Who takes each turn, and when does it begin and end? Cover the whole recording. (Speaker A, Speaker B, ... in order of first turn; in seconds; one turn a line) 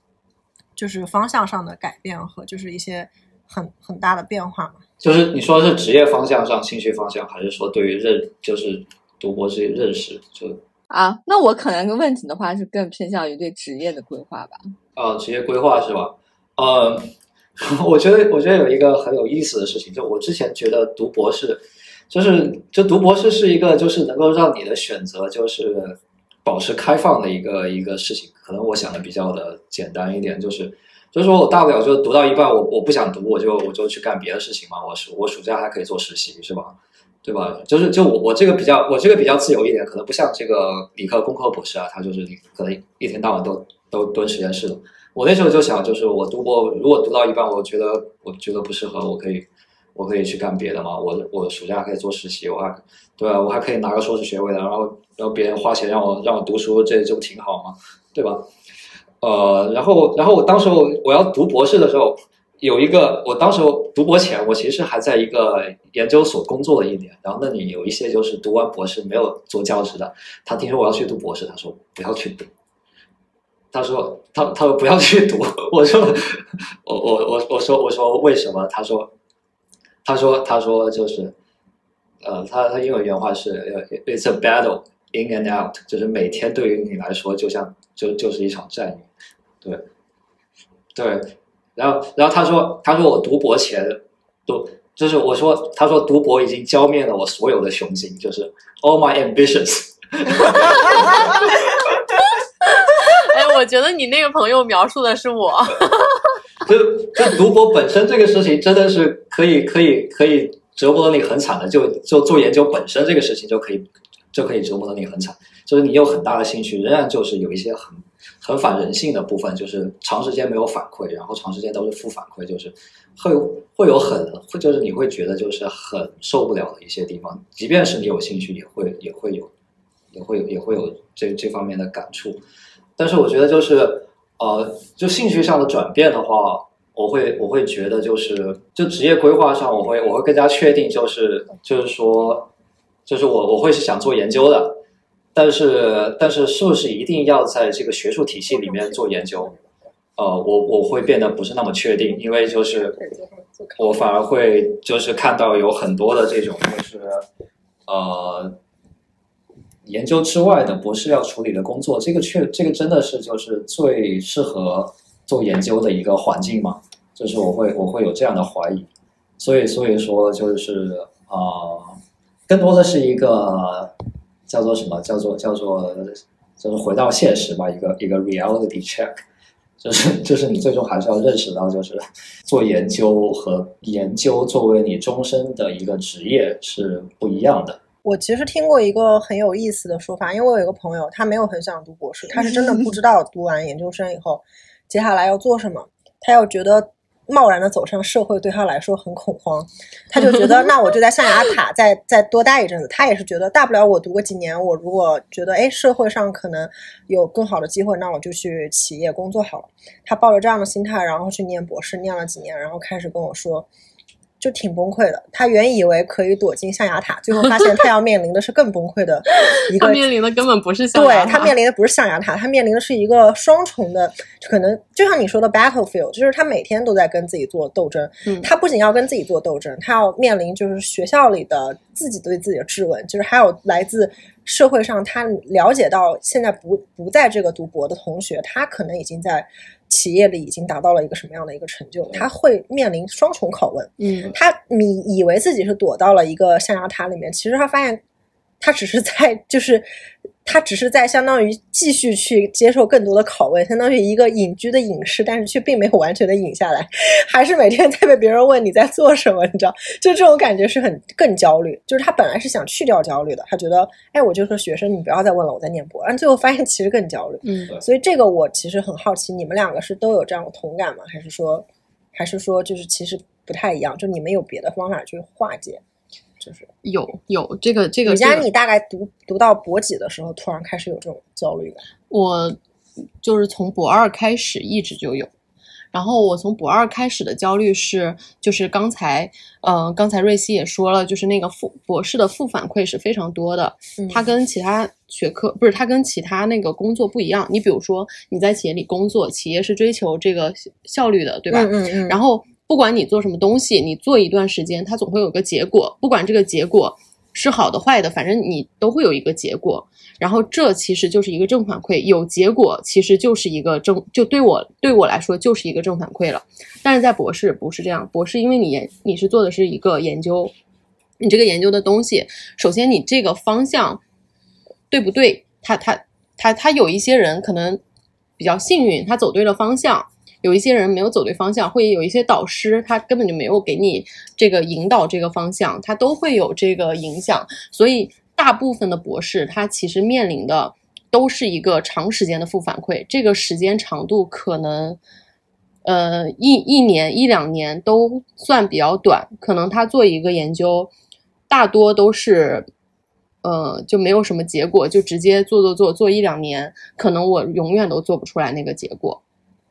Speaker A: 0.8-4.8
Speaker B: 5.0-10.6
Speaker C: 10.9-14.7
Speaker B: 14.9-58.5
Speaker B: 59.2-72.5
Speaker B: 73.7-79.1
Speaker B: 80.0-81.3
Speaker B: 82.2-89.1
Speaker B: 90.9-101.8
Speaker D: 102.8-106.2
Speaker B: 106.6-129.5
Speaker B: 130.1-132.4
Speaker B: 133.0-142.5
Speaker B: 143.1-144.8
Speaker B: 145.3-149.5
Speaker A: 148.5-149.6
Speaker B: 150.2-153.0
Speaker A: 152.8-154.0
Speaker B: 153.8-157.2
Speaker B: 157.9-158.6
Speaker B: 159.8-168.9
Speaker B: 169.4-173.9
Speaker B: 174.5-179.2
Speaker B: 179.8-187.8
Speaker A: 188.0-213.7
Speaker A: 214.4-220.1
Speaker D: 219.5-221.5
Speaker A: 220.9-248.0
Speaker D: 228.2-228.5
Speaker D: 244.0-244.3
Speaker A: 248.6-249.9
Speaker A: 250.4-275.8
Speaker D: 267.4-267.8
Speaker A: 276.4-276.7
Speaker D: 276.8-278.5
Speaker A: 278.0-281.8
Speaker D: 282.1-282.6
Speaker D: 283.2-285.3
Speaker D: 285.9-320.5
Speaker A: 294.0-294.2
Speaker A: 301.5-302.2
Speaker D: 321.2-324.0
Speaker D: 324.9-327.8
Speaker D: 328.4-345.0
Speaker D: 345.8-350.9
Speaker D: 351.5-352.7
Speaker D: 353.4-359.2